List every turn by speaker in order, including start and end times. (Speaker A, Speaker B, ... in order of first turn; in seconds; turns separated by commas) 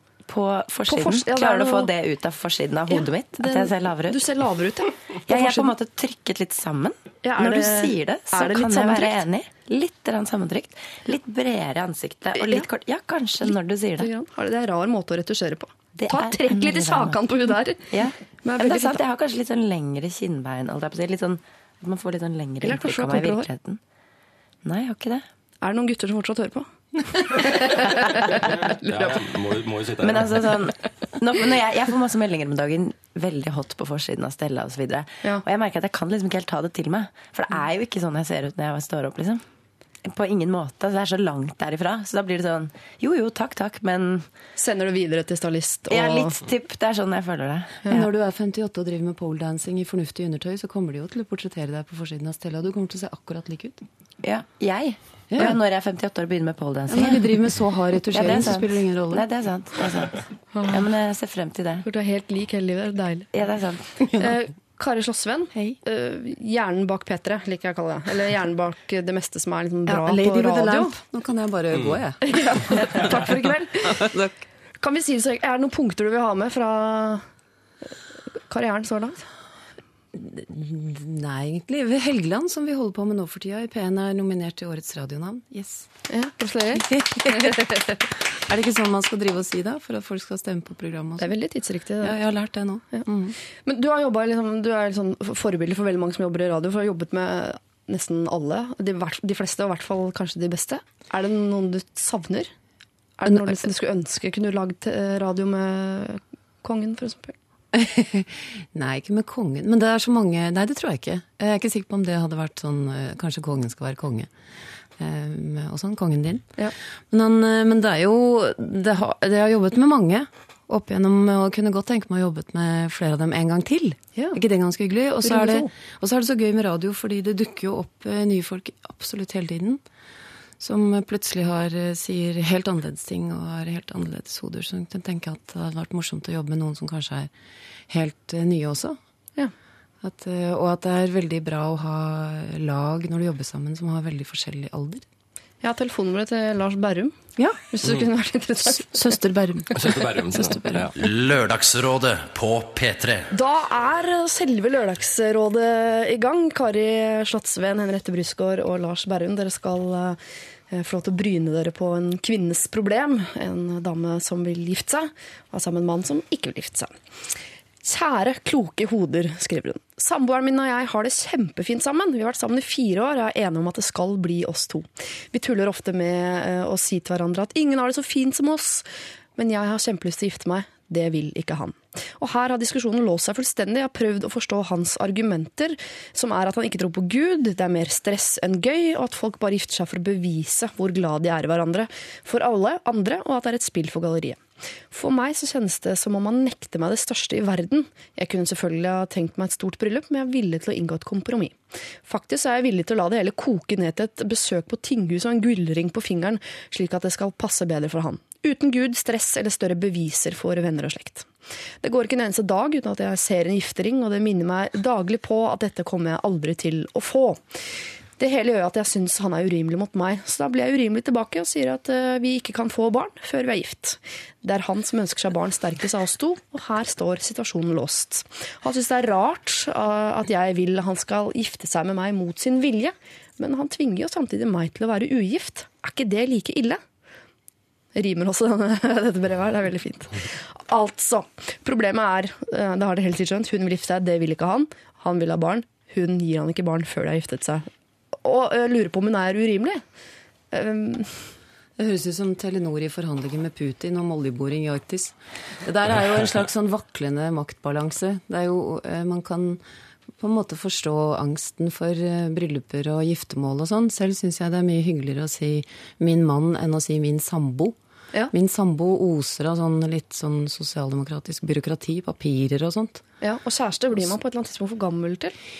Speaker A: 0.3-4.2, Speaker B: 0.9-1.9, Speaker B: 2.9-5.7, Speaker A: 5.3-14.1, Speaker B: 7.2-9.2, Speaker B: 12.4-12.7, Speaker B: 14.0-17.9, Speaker A: 15.9-17.2, Speaker A: 17.9-23.8, Speaker B: 18.4-19.0, Speaker B: 22.6-23.4, Speaker A: 24.6-25.2, Speaker B: 25.6-29.2, Speaker C: 28.8-30.5, Speaker A: 30.0-39.4, Speaker A: 40.0-44.3, Speaker B: 44.6-46.4, Speaker A: 45.9-48.0, Speaker D: 47.9-53.8, Speaker A: 54.2-57.3, Speaker D: 55.3-55.6, Speaker D: 56.9-59.2, Speaker A: 58.1-61.9, Speaker B: 60.5-60.8, Speaker B: 61.9-63.3, Speaker A: 63.3-63.9, Speaker B: 64.1-70.9, Speaker D: 69.8-74.3, Speaker C: 71.7-72.0, Speaker B: 72.3-74.1, Speaker B: 74.8-77.2, Speaker B: 78.5-79.2, Speaker D: 80.1-85.9, Speaker B: 86.1-87.6, Speaker D: 86.7-91.3, Speaker B: 91.2-92.2, Speaker D: 92.0-93.4, Speaker B: 93.6-102.5, Speaker B: 103.2-107.3, Speaker D: 103.2-103.7, Speaker D: 107.7-114.3, Speaker D: 115.0-116.5, Speaker D: 117.1-129.8, Speaker B: 125.2-125.7, Speaker D: 130.6-137.3, Speaker D: 137.9-139.0, Speaker D: 140.0-145.0, Speaker B: 145.6-149.0, Speaker D: 148.6-150.9, Speaker C: 149.7-150.9, Speaker E: 151.0-153.3, Speaker B: 153.3-160.2, Speaker B: 160.7-166.9, Speaker B: 167.8-178.8, Speaker B: 179.3-211.3, Speaker B: 211.8-217.4, Speaker B: 218.2-236.8, Speaker B: 237.9-247.7, Speaker B: 248.2-249.8, Speaker B: 250.5-251.3, Speaker D: 251.8-259.6, Speaker D: 260.2-267.8, Speaker D: 268.3-273.0, Speaker B: 273.2-275.4